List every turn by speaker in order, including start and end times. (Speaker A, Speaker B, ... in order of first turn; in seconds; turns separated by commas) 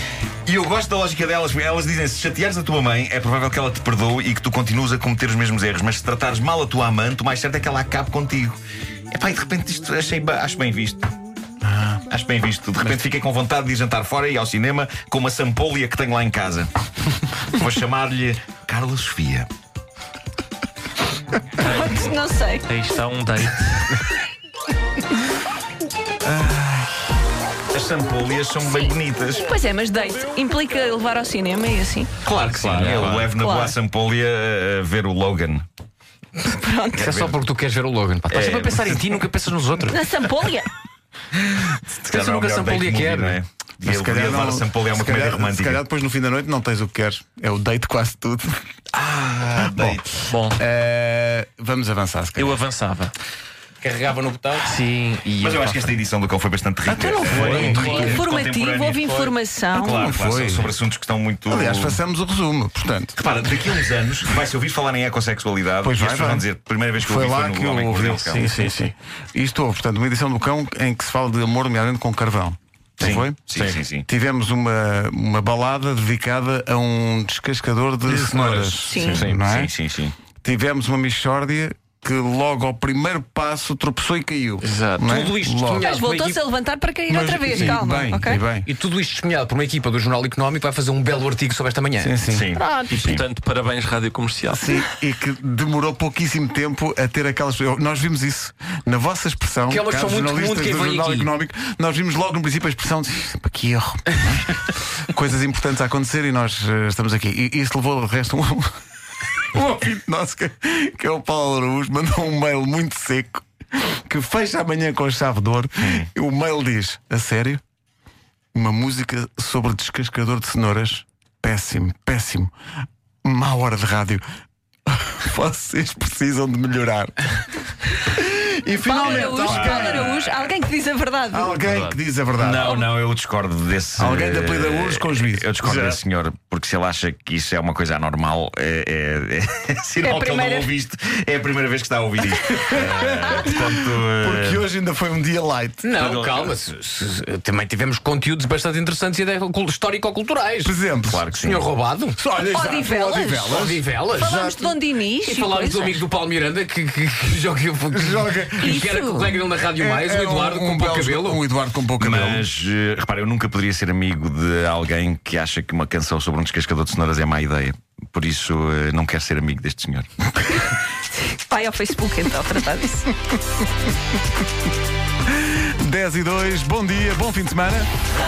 Speaker A: 0.5-8.6, Speaker A: 9.1-11.1, Speaker B: 11.6-12.0, Speaker A: 12.1-16.7, Speaker A: 17.5-19.5, Speaker C: 21.6-22.7, Speaker D: 21.6-22.1, Speaker D: 22.7-24.0, Speaker B: 26.2-26.9, Speaker A: 27.7-29.4, Speaker C: 28.6-32.1, Speaker E: 32.2-32.9, Speaker A: 32.3-35.6, Speaker D: 32.6-33.3, Speaker C: 33.0-33.8, Speaker C: 36.4-37.1, Speaker A: 37.0-37.4, Speaker E: 37.0-40.0, Speaker A: 38.3-39.2, Speaker C: 39.9-40.7, Speaker A: 41.4-45.8, Speaker E: 42.1-43.4, Speaker B: 43.8-48.6, Speaker A: 48.9-50.2, Speaker B: 49.6-52.6, Speaker D: 50.3-50.6, Speaker D: 52.4-53.1, Speaker E: 53.8-54.7, Speaker D: 54.6-55.9, Speaker A: 55.3-59.1, Speaker B: 56.9-58.2, Speaker D: 57.2-58.2, Speaker C: 57.5-60.1, Speaker E: 57.7-58.0, Speaker E: 59.0-59.4, Speaker A: 59.8-62.0, Speaker B: 59.8-60.7, Speaker B: 61.5-63.2, Speaker A: 63.2-68.5, Speaker B: 65.8-66.5, Speaker B: 67.0-79.7, Speaker D: 68.3-68.9, Speaker A: 73.0-74.1, Speaker E: 78.1-79.4, Speaker C: 78.9-79.2, Speaker A: 79.0-80.2, Speaker B: 80.4-85.9, Speaker D: 84.6-85.2, Speaker E: 85.1-86.4, Speaker C: 85.7-88.5, Speaker B: 87.1-88.7, Speaker E: 88.6-92.1, Speaker B: 92.0-92.6, Speaker A: 92.3-93.2, Speaker C: 92.6-92.9, Speaker D: 92.9-94.8, Speaker B: 94.5-108.7, Speaker E: 99.7-101.3, Speaker B: 109.5-117.6, Speaker B: 118.5-122.5, Speaker B: 123.2-124.2, Speaker B: 124.9-127.3, Speaker B: 127.9-130.2, Speaker C: 128.8-131.6, Speaker A: 129.0-130.4, Speaker B: 131.3-132.8, Speaker D: 131.6-132.0, Speaker A: 132.4-144.7, Speaker C: 132.6-132.9, Speaker B: 134.0-136.0, Speaker C: 140.0-140.7, Speaker B: 142.5-145.8, Speaker E: 145.8-152.2, Speaker A: 145.9-146.6, Speaker B: 150.6-151.2, Speaker A: 151.1-151.7, Speaker B: 152.2-154.7, Speaker C: 152.5-153.6, Speaker E: 153.4-154.3, Speaker C: 154.1-156.1, Speaker E: 155.1-161.4, Speaker B: 157.9-159.0, Speaker C: 158.6-159.4, Speaker B: 159.8-162.4, Speaker A: 162.0-170.1, Speaker C: 170.7-173.1, Speaker B: 175.4-177.9